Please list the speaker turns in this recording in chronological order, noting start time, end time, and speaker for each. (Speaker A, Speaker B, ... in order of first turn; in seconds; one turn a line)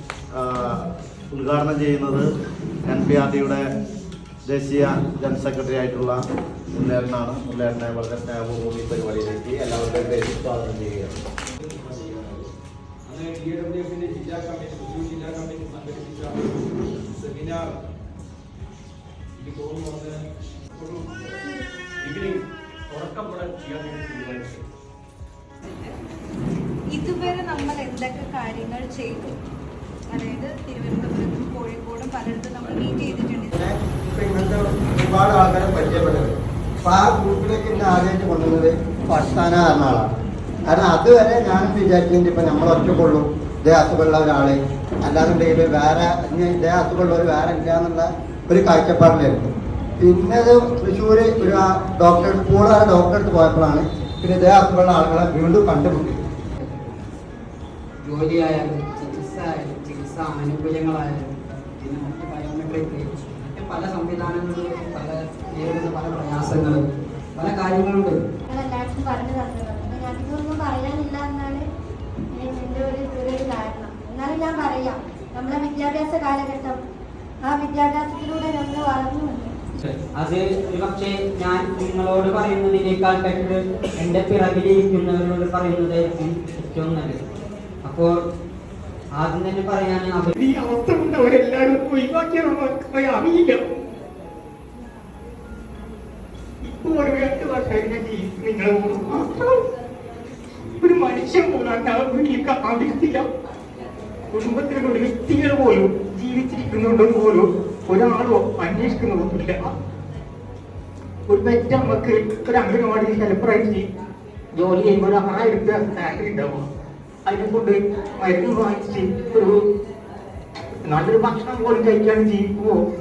Speaker A: 0.3-0.7
Speaker A: 1.3-2.3
Speaker A: 2.9-3.6
Speaker A: 4.5-6.2
Speaker A: 6.7-11.2
Speaker B: 11.6-12.5
Speaker B: 13.1-16.4
Speaker B: 16.9-17.8
Speaker B: 19.4-20.1
Speaker B: 20.7-21.3
Speaker B: 22.0-24.6
Speaker C: 26.9-29.4
Speaker C: 30.1-33.5
Speaker D: 33.5-40.1
Speaker D: 40.7-49.4
Speaker D: 50.0-56.2
Speaker E: 58.1-61.3
Speaker E: 61.8-66.8
Speaker E: 67.4-68.2
Speaker F: 68.5-71.6
Speaker F: 72.3-76.8
Speaker F: 77.4-79.5
Speaker E: 80.2-87.2
Speaker E: 87.8-88.2
Speaker E: 89.2-90.3
Speaker G: 90.3-93.6
Speaker G: 96.6-99.6
Speaker G: 100.8-103.2
Speaker G: 104.3-109.7
Speaker G: 111.3-113.8
Speaker G: 114.6-116.7
Speaker G: 117.3-119.6
Speaker G: 120.9-122.8